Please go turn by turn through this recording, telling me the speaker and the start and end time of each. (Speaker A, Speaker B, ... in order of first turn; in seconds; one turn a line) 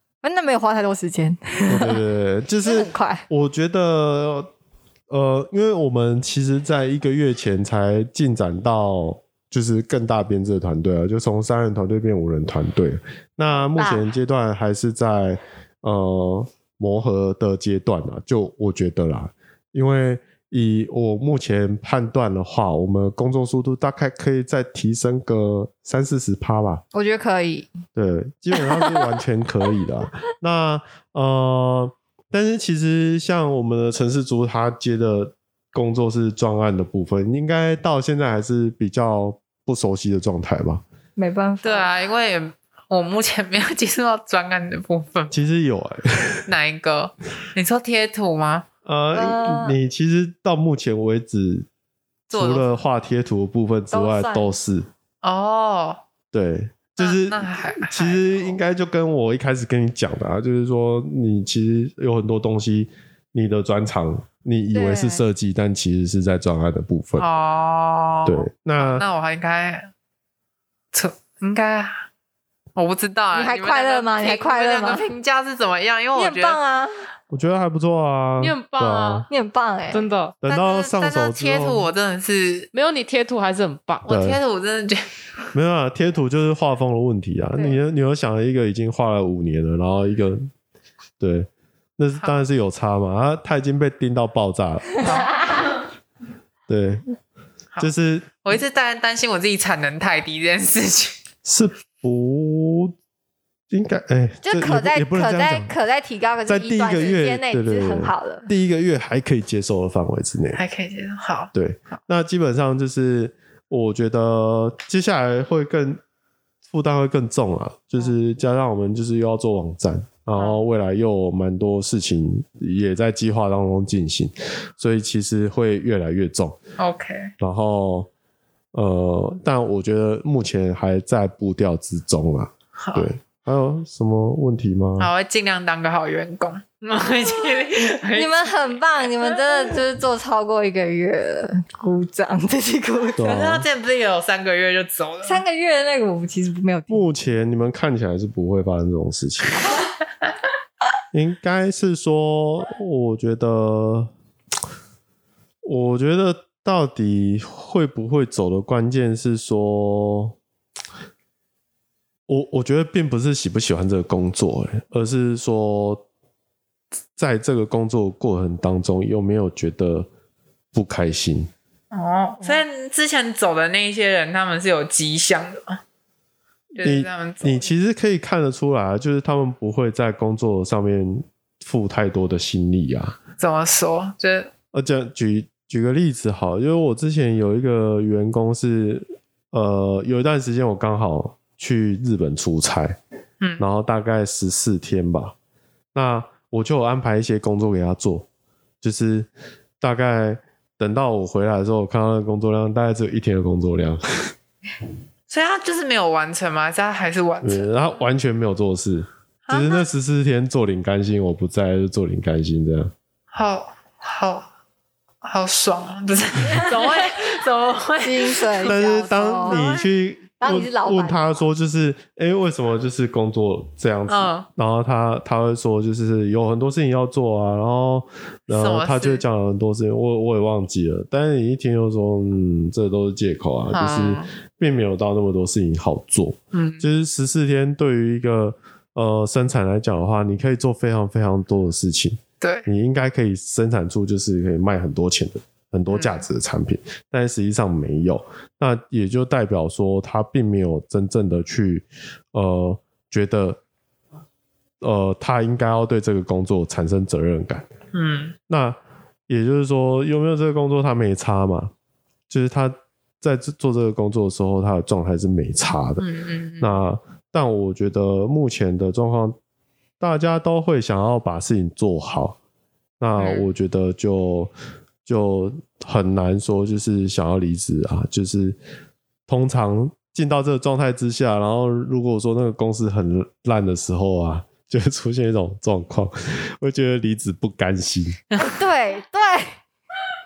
Speaker A: 0.2-2.0
Speaker B: 1.7-4.5
Speaker A: 2.6-3.2
Speaker B: 5.1-26.8
Speaker A: 13.7-14.1
Speaker A: 26.9-27.7
Speaker B: 27.9-40.8
Speaker A: 28.6-28.9
Speaker A: 41.2-41.9
Speaker C: 41.6-45.3
Speaker B: 45.3-46.5
Speaker C: 46.5-48.7
Speaker B: 48.9-51.7
Speaker A: 49.1-49.8
Speaker C: 52.3-52.8
Speaker B: 52.3-54.9
Speaker A: 53.9-54.5
Speaker C: 55.2-56.0
Speaker B: 56.3-67.2
Speaker C: 57.0-58.6
Speaker A: 64.7-65.2
Speaker C: 67.2-69.9
Speaker B: 68.3-69.0
Speaker C: 70.9-72.0
Speaker C: 72.8-76.6
Speaker A: 73.3-75.1
Speaker A: 76.1-77.1
Speaker B: 77.3-79.3
Speaker D: 78.4-79.3
Speaker A: 79.3-80.0
Speaker D: 79.9-80.3
Speaker B: 80.4-81.9
Speaker C: 80.5-82.7
Speaker D: 82.7-84.1
Speaker C: 84.1-85.0
Speaker B: 84.1-84.4
Speaker B: 85.5-90.5
Speaker B: 91.2-95.1
Speaker C: 95.0-95.3
Speaker B: 96.7-97.0
Speaker B: 97.8-98.5
Speaker C: 98.4-101.2
Speaker B: 101.5-102.9
Speaker B: 103.7-105.7
Speaker A: 104.4-108.5
Speaker B: 106.5-110.6
Speaker C: 110.5-112.0
Speaker B: 111.5-116.0
Speaker B: 116.7-126.6
Speaker C: 120.4-120.6
Speaker C: 126.8-127.3
Speaker B: 127.4-128.1
Speaker B: 128.7-135.1
Speaker C: 132.8-133.1
Speaker C: 135.0-138.6
Speaker A: 138.1-143.6
Speaker B: 143.2-143.7
Speaker C: 143.2-145.4
Speaker A: 145.2-147.0
Speaker B: 146.9-149.6
Speaker B: 151.1-154.1
Speaker B: 155.6-160.4
Speaker B: 162.3-166.0
Speaker B: 167.2-170.1
Speaker B: 170.7-171.5
Speaker C: 171.9-175.8
Speaker C: 176.8-177.7
Speaker B: 176.8-183.2
Speaker C: 183.4-184.5
Speaker B: 184.7-193.0
Speaker B: 193.6-195.3
Speaker B: 195.9-198.3
Speaker B: 198.8-199.3
Speaker B: 199.8-204.3
Speaker C: 205.3-207.7
Speaker B: 207.4-212.9
Speaker C: 209.5-209.8
Speaker C: 213.3-214.5
Speaker C: 215.2-219.9
Speaker A: 218.0-219.7
Speaker B: 218.7-253.6
Speaker A: 220.4-221.4
Speaker C: 224.1-224.5
Speaker C: 228.5-229.2
Speaker C: 233.7-234.3
Speaker C: 236.5-236.8
Speaker C: 242.4-242.7
Speaker C: 245.9-246.2
Speaker B: 254.8-257.7
Speaker C: 257.9-258.4
Speaker B: 258.5-261.7
Speaker B: 262.3-266.0
Speaker C: 266.0-266.8
Speaker B: 266.6-269.4
Speaker B: 270.0-272.4
Speaker B: 273.0-274.5
Speaker C: 273.2-273.5
Speaker B: 275.1-278.6
Speaker B: 279.3-288.2
Speaker A: 288.4-289.6